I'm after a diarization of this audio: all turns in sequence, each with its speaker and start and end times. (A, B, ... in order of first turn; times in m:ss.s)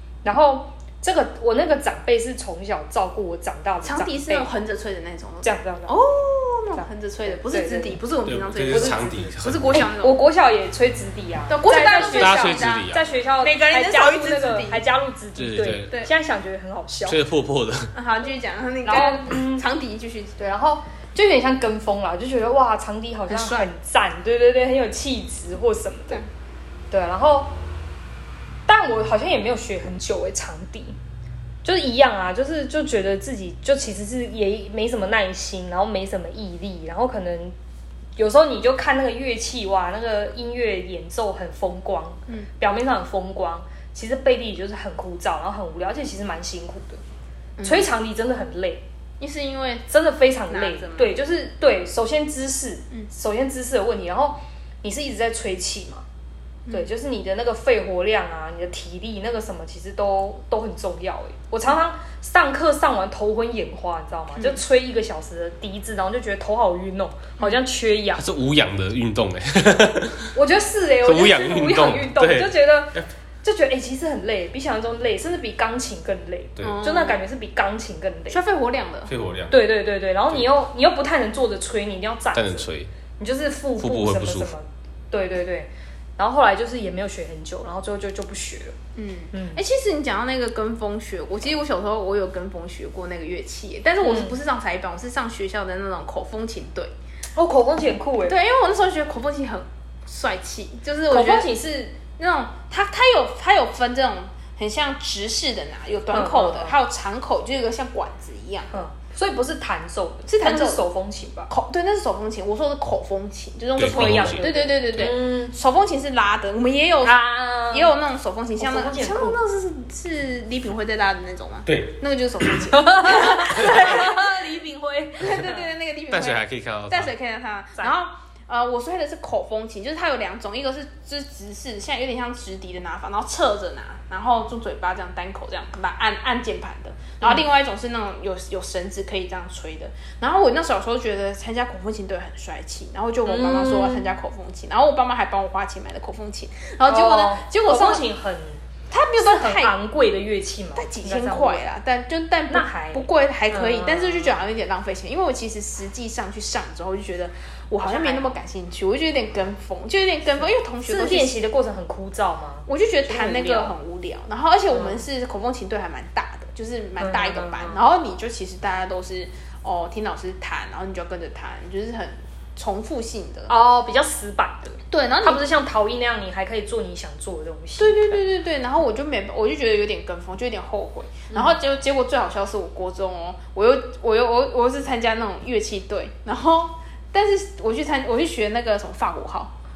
0:00.2-0:04.5 A
0:03.8-0:10.2 B
0:05.4-0:06.0 A
0:06.8-0:08.0 A
0:08.3-0:09.7 C
0:08.6-0:17.2 A
0:11.5-0:14.8 B
0:12.1-0:13.0 C
0:15.4-0:15.9 C
0:17.1-0:17.9 C
0:17.9-0:20.4 B
0:18.9-0:19.6 A
0:20.4-0:26.2 A
0:23.3-0:23.7 B
0:26.9-0:27.6 A
0:28.7-0:31.0 A
0:31.6-0:37.6 A
0:38.2-0:47.0 A
0:47.6-0:47.9 B
0:47.6-0:48.9 A
0:49.2-0:49.9 B
0:49.9-0:56.0 A
0:50.5-0:51.2 B
0:56.7-1:08.2 A
1:04.3-1:04.6 B
1:08.2-1:10.3 C
1:10.4-1:18.4 A
1:11.0-1:13.1 C
1:16.6-1:17.2 B
1:18.3-1:19.1 B
1:19.1-1:19.6 C
1:19.5-1:28.8 A
1:22.3-1:22.9 C
1:23.8-1:24.5 C
1:29.0-1:36.9 B
1:29.3-1:29.6 A
1:34.0-1:34.4 A
1:37.4-1:38.4 A
1:38.3-1:41.5 B
1:41.1-1:42.0 A
1:42.2-1:48.7 B
1:46.1-1:46.8 A
1:48.7-1:51.5 A
1:50.3-1:50.8 B
1:51.5-2:04.3 B
1:53.8-1:54.5 C
1:53.8-1:55.6 A
1:57.0-1:58.0 A
1:58.6-1:59.4 A
2:01.7-2:01.9 C
2:02.7-2:05.6 A
2:05.2-2:28.0 B
2:06.1-2:07.1 C
2:23.3-2:24.1 A
2:26.9-2:28.6 A
2:28.9-2:29.7 B
2:29.2-2:31.6 A
2:30.8-2:41.4 B
2:32.5-2:34.4 A
2:37.8-2:38.3 A
2:40.8-2:43.7 A
2:42.7-2:53.5 B
2:44.7-2:45.0 A
2:47.0-2:47.8 A
2:53.5-2:58.2 A
2:54.9-2:55.4 B
2:57.8-3:09.5 B